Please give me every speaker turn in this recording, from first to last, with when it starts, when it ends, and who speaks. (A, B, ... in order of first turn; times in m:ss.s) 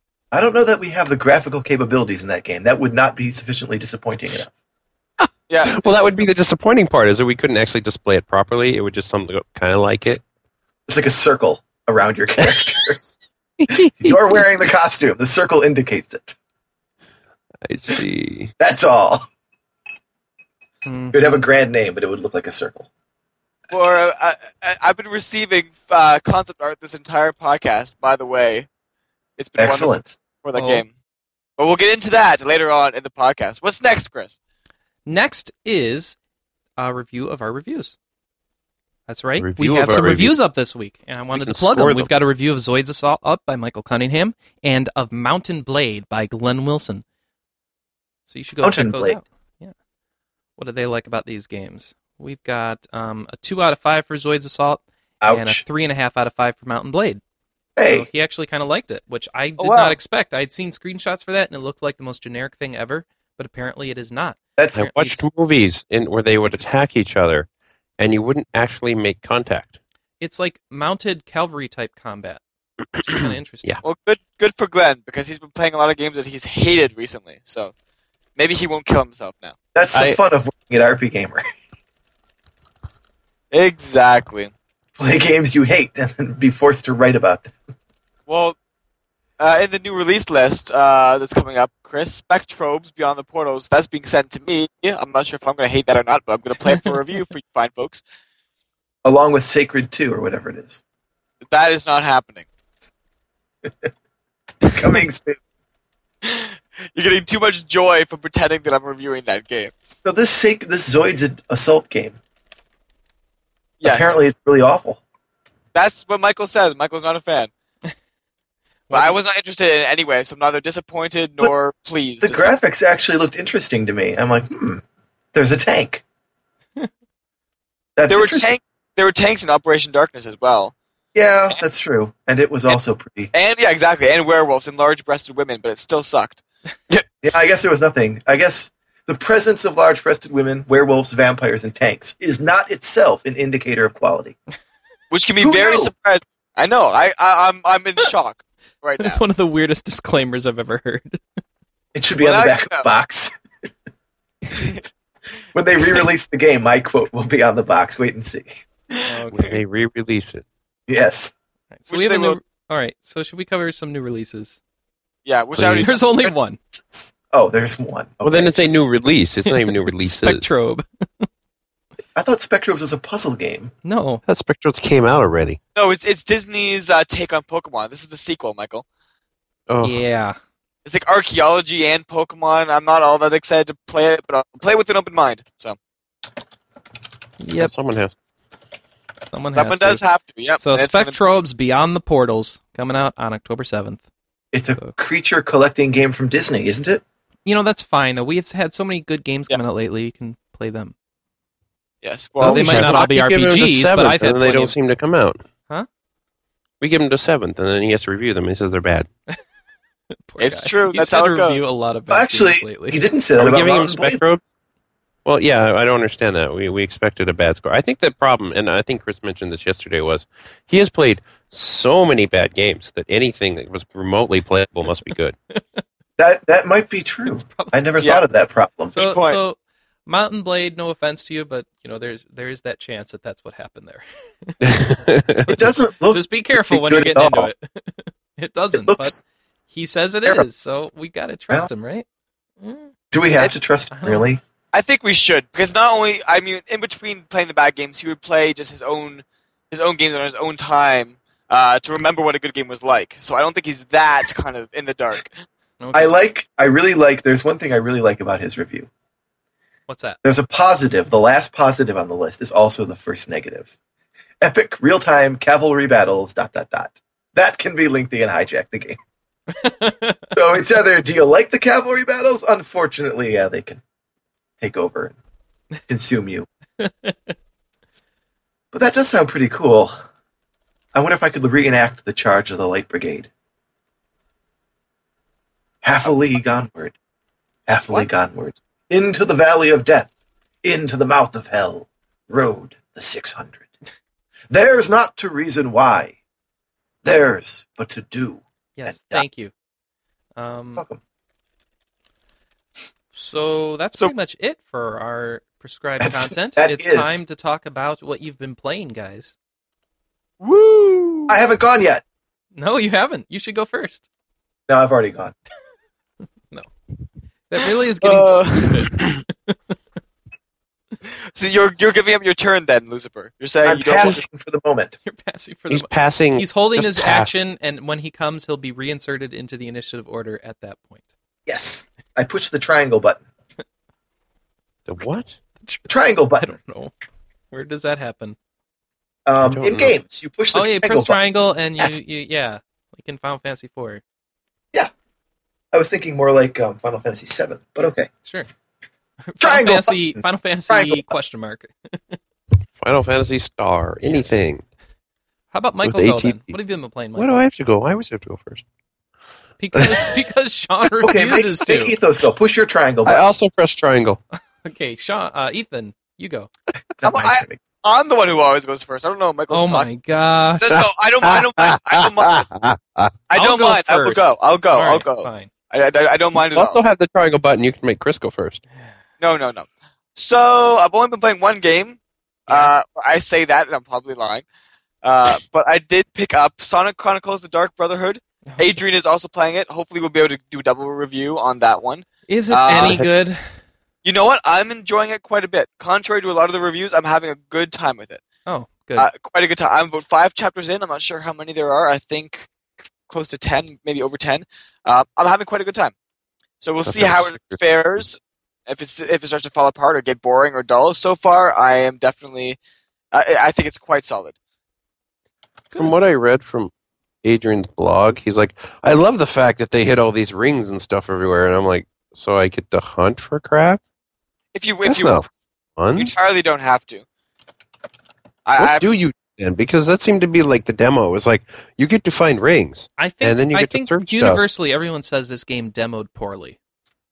0:00.3-0:04.5 A
0:05.5-0:06.2 B
0:05.6-0:10.2 C
0:10.9-0:13.0 A
0:13.7-0:14.2 C
0:13.8-0:16.4 A
0:17.6-0:18.5 C
0:18.6-0:19.2 A
0:20.8-0:21.3 D
0:21.1-0:22.9 A
0:23.7-0:28.7 B
0:29.4-0:30.9 B
0:29.6-0:30.2 A
0:30.5-0:30.8 D
0:31.6-0:34.4 B
0:35.0-0:36.2 D
0:36.8-0:38.0 D
0:39.1-0:47.0 D
0:39.4-0:40.4 C
0:41.3-0:42.1 C
0:48.3-0:49.7 D
0:48.6-0:49.2 A
0:50.6-0:57.2 D
0:55.2-0:55.6 A
0:57.8-0:58.1 A
0:57.8-1:05.2 D
0:59.6-1:00.0 B
1:04.6-1:04.9 A
1:04.8-1:07.5 C
1:08.0-1:09.8 C
1:10.2-1:12.4 D
1:13.0-1:13.8 D
1:13.1-1:13.8 C
1:13.8-1:17.7 B
1:18.4-1:19.5 B
1:19.7-1:21.4 A
1:19.9-1:20.2 C
1:23.5-1:24.5 B
1:25.0-1:27.5 A
1:28.3-1:28.6 B
1:29.4-1:38.0 B
1:39.0-1:40.8 A
1:41.5-1:42.4 B
1:44.7-1:45.4 A
1:46.2-1:49.7 B
1:50.0-1:52.2 A
1:53.8-1:54.2 B
1:53.8-1:55.0 A
1:55.7-1:57.5 B
1:58.9-1:59.2 D
1:58.9-2:02.5 B
2:02.2-2:04.8 A
2:05.3-2:06.0 A
2:08.0-2:08.5 A
2:08.1-2:10.7 B
2:11.1-2:13.3 A
2:13.3-2:16.4 B
2:17.2-2:24.4 A
2:25.1-2:29.2 B
2:25.4-2:25.9 A
2:29.0-2:31.2 D
2:31.9-2:33.3 A
2:32.2-2:32.8 B
2:34.5-2:34.8 B
2:35.5-2:38.5 A
2:39.1-2:39.5 D
2:39.3-2:40.4 C
2:40.9-2:41.3 A
2:41.7-2:44.6 D
2:41.9-2:42.4 B
2:45.2-2:46.0 B
2:45.5-2:45.9 C
2:45.8-2:46.6 D
2:46.7-2:48.8 A
2:48.2-2:50.5 C
2:49.4-2:51.3 D
2:52.1-2:53.7 A
2:53.8-2:54.2 D
2:54.2-2:55.6 C
2:55.8-2:58.8 B
2:59.7-3:00.0 C
2:59.8-3:00.4 D
3:00.8-3:05.8 B
3:07.4-3:07.7 D
3:07.6-3:08.1 C
3:09.3-3:10.0 D
3:09.5-3:11.2 B
3:10.6-3:14.0 D
3:14.5-3:17.0 A
3:17.4-3:20.9 D
3:22.0-3:23.0 B
3:22.4-3:25.4 C
3:22.4-3:24.7 D
3:26.8-3:29.1 C
3:30.3-3:33.0 D
3:30.4-3:31.6 B
3:32.1-3:34.2 A
3:33.4-3:34.4 C
3:35.2-3:45.4 C
3:45.5-3:45.8 D
3:46.2-3:49.0 A
3:47.2-3:47.8 D
3:48.0-3:48.2 B
3:48.9-3:49.4 B
3:48.9-3:54.8 D
3:54.6-3:55.4 C
3:55.4-3:59.2 D
3:55.5-3:57.5 A
3:58.7-3:59.2 A
3:59.7-4:02.0 D
4:02.6-4:02.9 D
4:03.1-4:04.4 A
4:03.9-4:04.3 D
4:04.7-4:15.3 B
4:15.8-4:16.1 D
4:15.9-4:18.9 A
4:19.9-4:20.2 D
4:20.2-4:23.7 A
4:24.4-4:29.0 A
4:29.5-4:30.3 D
4:30.3-4:33.8 A
4:34.6-4:35.2 A
4:35.9-4:36.5 A
4:36.8-4:37.3 D
4:38.7-4:40.0 A
4:40.9-4:43.3 A
4:45.8-4:47.0 A
4:47.7-4:50.1 A
4:50.6-4:53.7 A
4:54.5-4:56.2 A
4:57.0-4:59.2 A
4:58.8-4:59.5 D
5:00.4-5:00.8 D
5:03.1-5:09.3 D
5:06.0-5:07.2 A
5:10.4-5:11.4 B
5:11.3-5:12.0 A
5:12.6-5:14.0 D
5:14.7-5:15.3 A
5:17.5-5:19.6 D
5:18.0-5:19.0 B
5:21.3-5:24.2 B
5:23.6-5:24.9 A
5:25.0-5:31.0 D
5:25.7-5:27.4 C
5:31.4-5:33.2 A
5:34.9-5:35.4 C
5:35.6-5:36.9 D
5:35.9-5:36.6 A
5:37.5-5:38.4 D
5:39.2-5:41.2 A
5:39.4-5:39.9 C
5:40.5-5:44.0 D
5:45.7-5:48.1 A
5:48.2-5:48.5 D
5:49.3-5:52.2 D
5:49.4-5:51.1 A
5:52.8-5:54.6 C
5:54.0-5:54.4 D
5:55.5-5:57.4 D
5:55.8-5:56.6 C
5:57.2-5:58.6 C
5:59.6-6:02.0 D
5:59.7-6:00.1 C
6:01.0-6:03.3 A
6:03.0-6:04.2 C
6:04.6-6:06.5 D
6:07.0-6:07.6 A
6:07.0-6:09.9 B
6:09.5-6:10.7 D
6:10.6-6:12.5 B
6:10.7-6:13.1 C
6:13.3-6:16.8 B
6:13.3-6:15.5 D
6:16.5-6:18.6 C
6:19.2-6:24.4 B
6:22.5-6:22.7 D
6:25.0-6:33.0 B
6:32.3-6:33.4 D
6:32.7-6:33.1 C
6:34.0-6:38.2 B
6:38.4-6:39.1 D
6:39.0-6:42.5 B
6:43.1-6:45.9 B
6:46.6-6:52.6 B
6:46.8-6:47.6 C
6:53.1-6:54.4 B
6:55.8-6:56.7 C
6:57.2-7:03.8 C
7:04.5-7:05.2 B
7:04.8-7:06.1 C
7:05.9-7:07.0 B
7:08.4-7:08.9 B
7:08.6-7:14.4 C
7:13.0-7:16.6 D